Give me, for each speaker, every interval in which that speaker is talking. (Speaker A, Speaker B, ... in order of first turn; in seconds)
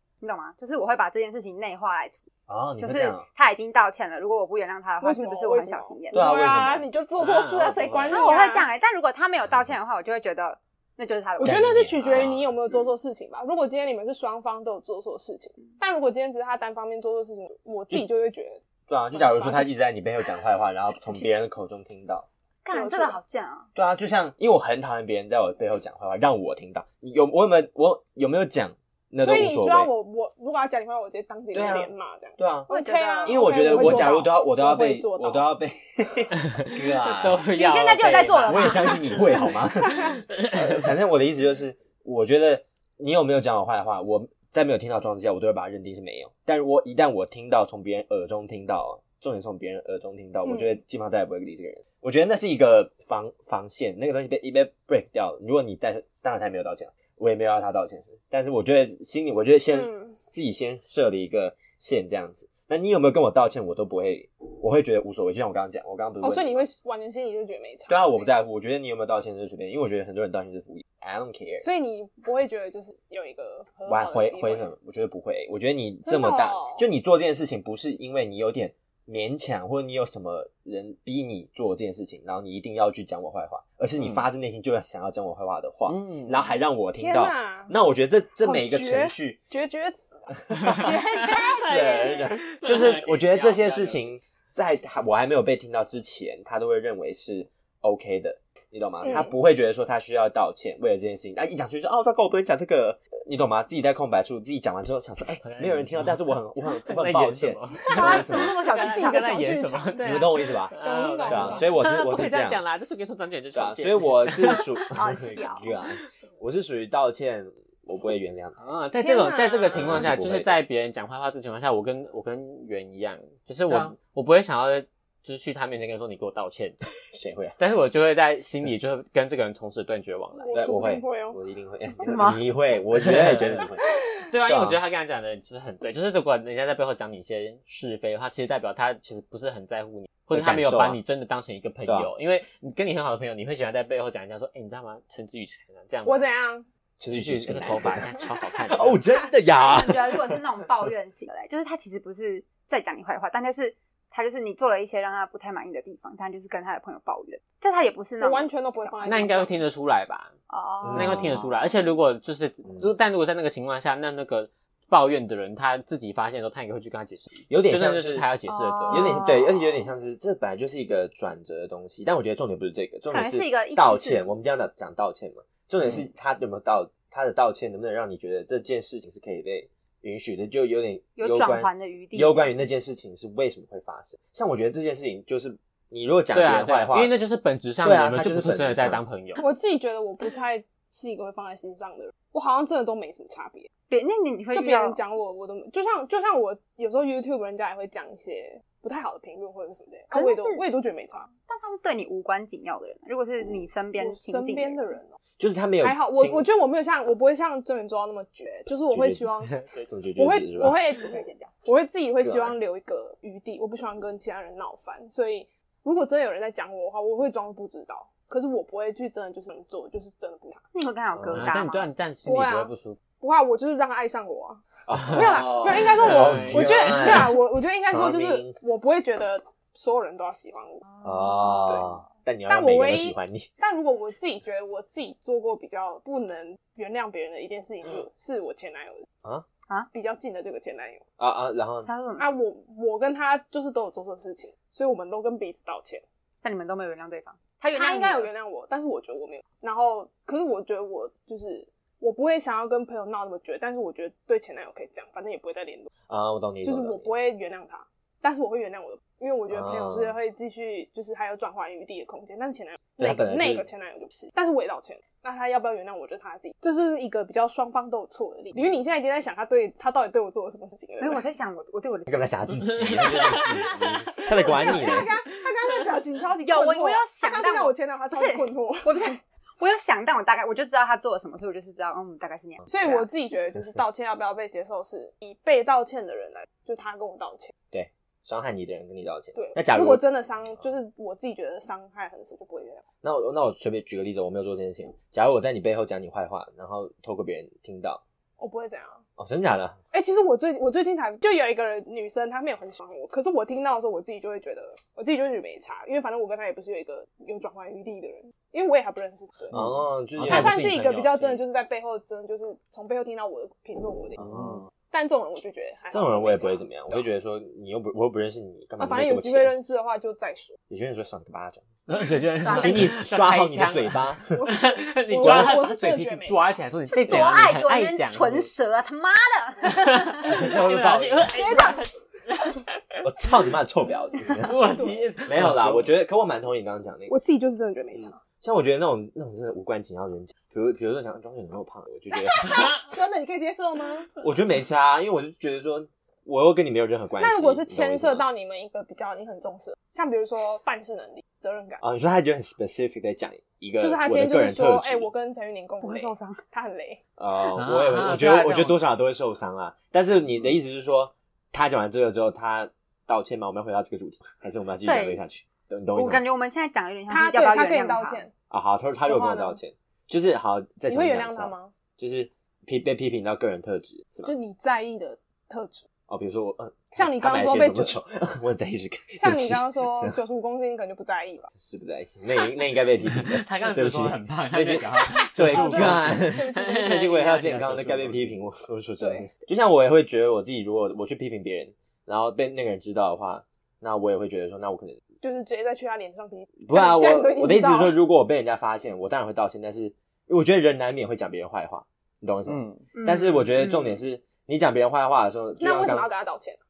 Speaker A: 0.2-2.2, 2.8-6.2, 8.1-11.9, 22.6-23.7, 32.7-34.3, 37.5-39.3, 90.8-92.0, 107.9-109.2, 114.9-115.7, 132.0-132.4, 149.6-159.1, 160.5-161.4, 168.5-169.7, 173.1-174.2, 181.2-182.5, 193.9-195.0, 200.1-200.7, 201.4-204.8, 211.0-211.5, 220.7-221.9, 241.8-242.3, 246.4-248.3, 271.0-272.3, 276.4-283.1, 326.9-330.4, 355.8-356.4, 364.8-365.2, 365.9-368.2, 402.9-404.0
Speaker B: 2.5-3.2, 6.1-6.9, 11.4-12.5, 18.9-22.3, 23.7-29.9, 31.5-32.7, 33.2-37.5, 38.4-66.6, 67.9-71.6, 73.8-89.4, 90.3-108.6, 110.0-112.6, 113.5-118.6, 119.7-120.6, 123.7-123.9, 127.1-127.5, 130.5-133.8, 134.4-134.8, 140.3-141.0, 141.8-142.1, 147.0-148.1, 148.7-150.4, 160.8-161.4, 167.5-168.3, 168.9-187.1, 187.8-189.0, 205.4-206.5, 208.9-209.3, 209.8-210.8, 212.2-212.5, 221.1-221.5, 224.9-228.6, 231.0-233.5, 241.2-241.9, 256.1-257.1, 259.5-260.1, 263.0-263.7, 272.1-275.1, 287.7-290.0, 293.0-298.0, 299.2-299.8, 309.5-310.9, 314.2-314.7, 315.9-319.5, 320.7-321.6, 322.4-324.2, 325.2-325.5, 327.1-327.4, 330.2-331.3, 333.0-334.7, 335.2-337.1, 337.9-342.6, 344.2-348.2, 351.8-355.1, 357.2-366.2, 368.5-374.3, 376.1-380.2, 381.5-395.0, 396.6-406.1
Speaker C: 5.0-8.7, 11.4-18.6, 19.1-19.9, 22.7-23.2, 29.2-35.5, 50.4-50.7, 59.7-60.2, 66.2-68.3, 71.6-74.7, 76.0-76.8, 87.0-87.7, 88.4-90.3, 99.0-99.3, 107.9-111.8, 119.0-120.0, 130.3-131.4, 146.0-146.7, 148.2-148.8, 158.2-159.6, 189.4-193.7, 194.5-201.3, 204.0-205.1, 205.8-209.6, 210.2-220.6, 222.2-230.8, 232.5-239.1, 239.9-241.0, 242.2-246.0, 247.7-255.9, 256.6-271.2, 274.4-279.2, 282.7-287.5, 289.3-292.8, 298.4-299.0, 299.9-309.6, 310.2-317.0, 318.8-320.6, 324.3-326.6, 331.2-331.8, 334.7-335.0, 337.1-338.2, 342.4-344.1, 347.2-351.8, 353.8-357.0, 367.1-368.3, 369.1-369.6, 370.9-371.7, 374.2-375.9, 376.9-378.0, 379.2-381.5, 385.4-387.1, 389.0-389.3, 395.2-397.9, 405.6-406.6
Speaker D: 7.2-8.3, 36.6-39.2, 40.4-40.6, 84.0-84.2, 85.9-86.5, 90.6-94.0, 105.4-106.3, 106.8-114.9, 118.6-126.8, 127.6-130.5, 133.0-133.5, 134.3-146.3, 147.1-149.0, 159.0-160.3, 160.9-169.2, 186.3-189.4, 209.5-209.9, 221.3-223.0, 225.8-227.1, 272.4-274.7, 310.2-311.4, 321.9-328.5, 329.6-332.6, 334.3-335.9, 357.5-358.8, 383.2-388.3, 402.4-402.8